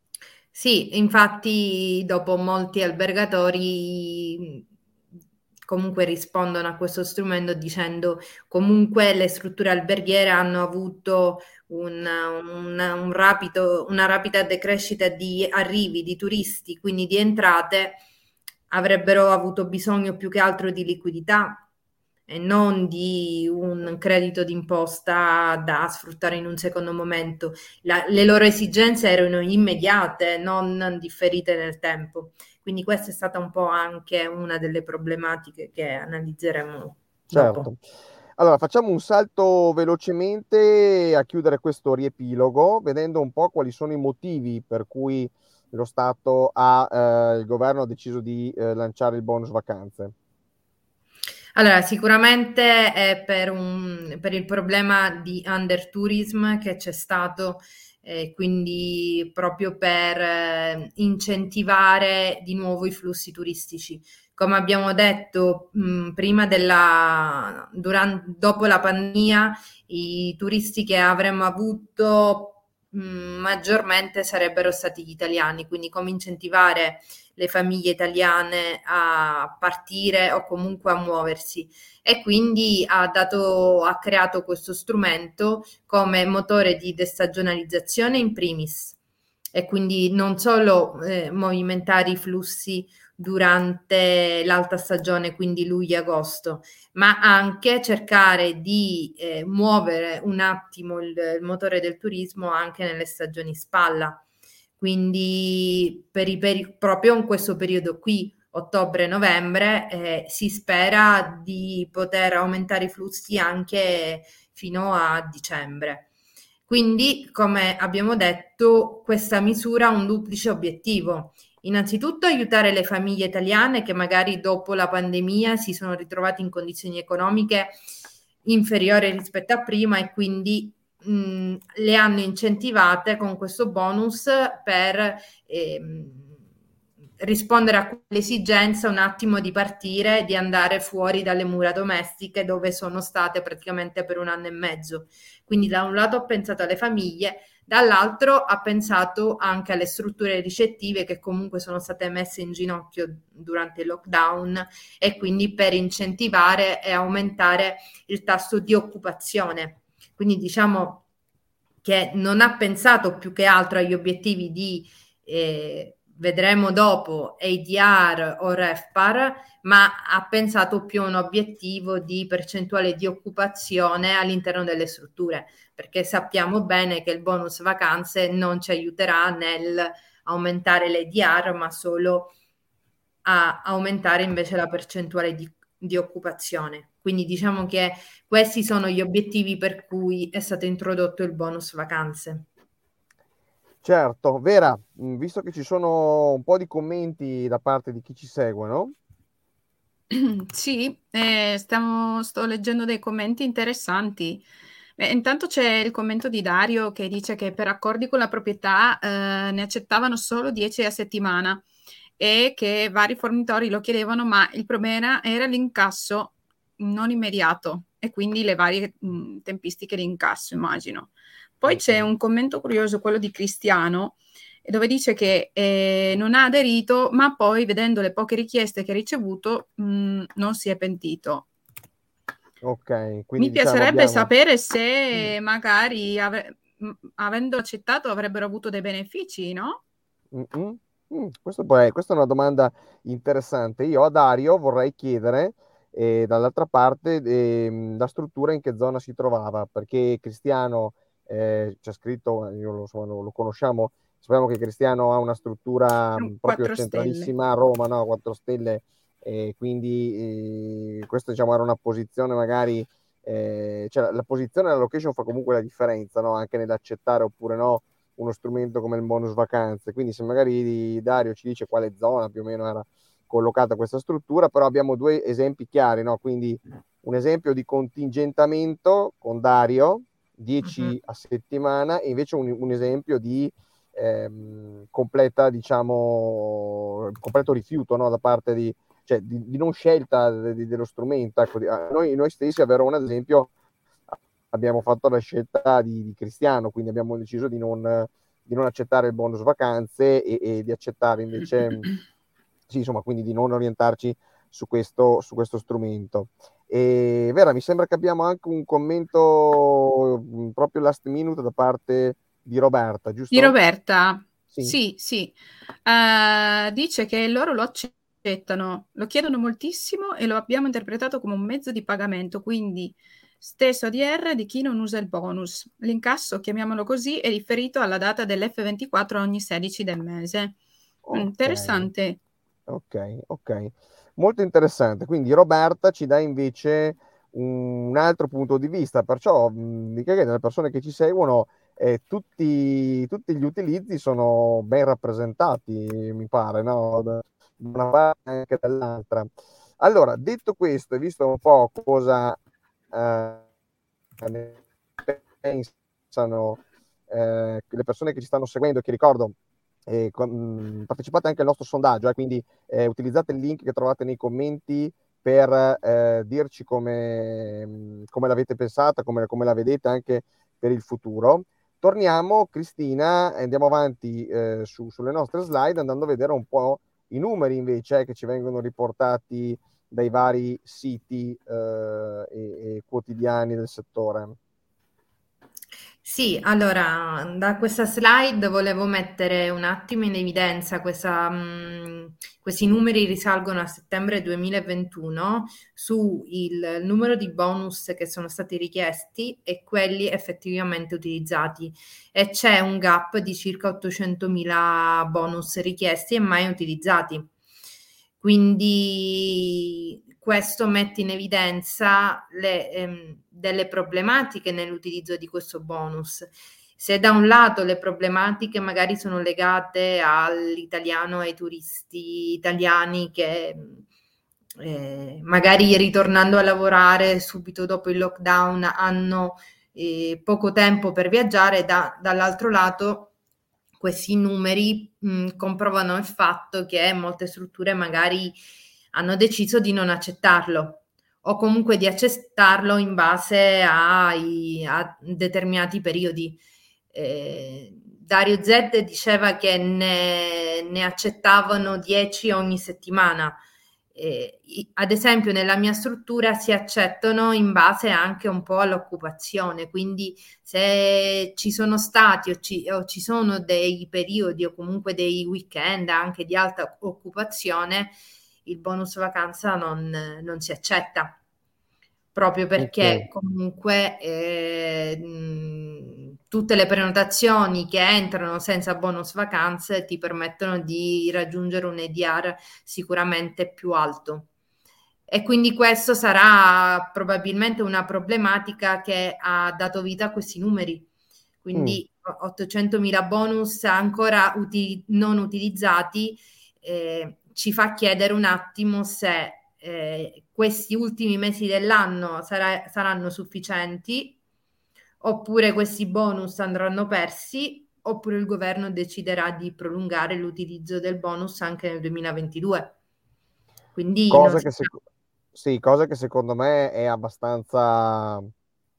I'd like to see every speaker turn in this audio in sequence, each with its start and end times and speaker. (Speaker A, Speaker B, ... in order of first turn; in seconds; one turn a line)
Speaker A: 0.5-4.6
Speaker A: 5.7-18.0
Speaker A: 18.7-21.6
Speaker A: 22.3-37.7
Speaker B: 37.3-37.8
Speaker B: 38.4-50.1
Speaker A: 51.5-89.0
Speaker A: 89.5-104.2
Speaker A: 104.8-116.1
Speaker A: 116.7-127.8
Speaker A: 128.4-136.3
Speaker A: 137.2-161.0
Speaker A: 161.8-182.3
Speaker A: 183.2-192.5
Speaker B: 193.8-198.9
Speaker C: 200.1-204.4
Speaker C: 205.0-211.6
Speaker C: 212.2-231.4
Speaker B: 221.7-222.0
Speaker B: 232.6-234.3
Speaker C: 233.4-239.8
Speaker B: 240.3-293.5
Speaker C: 256.2-257.3
Speaker A: 280.6-280.9
Speaker B: 294.1-301.9
Speaker B: 302.7-313.6
Speaker C: 313.3-330.6
Speaker B: 331.1-331.9
Speaker C: 331.1-332.2
Speaker B: 332.7-352.4
Speaker B: 352.9-353.4
Speaker B: 354.2-359.3
Speaker B: 359.9-384.4
Speaker A: 386.0-407.3
Speaker A: 408.2-423.8
Speaker A: 424.6-433.1
Speaker A: 433.8-438.4
Speaker A: 438.9-446.4
Speaker A: 446.9-453.4
Speaker A: 453.9-471.2
Speaker A: 472.1-484.3
Speaker B: 472.6-473.1
Speaker A: 485.1-490.9
Speaker A: 491.4-504.2
Speaker B: 491.5-491.8
Speaker A: 505.0-512.7
Speaker A: 513.8-514.7
Speaker B: 514.1-514.8
Speaker B: 515.3-518.3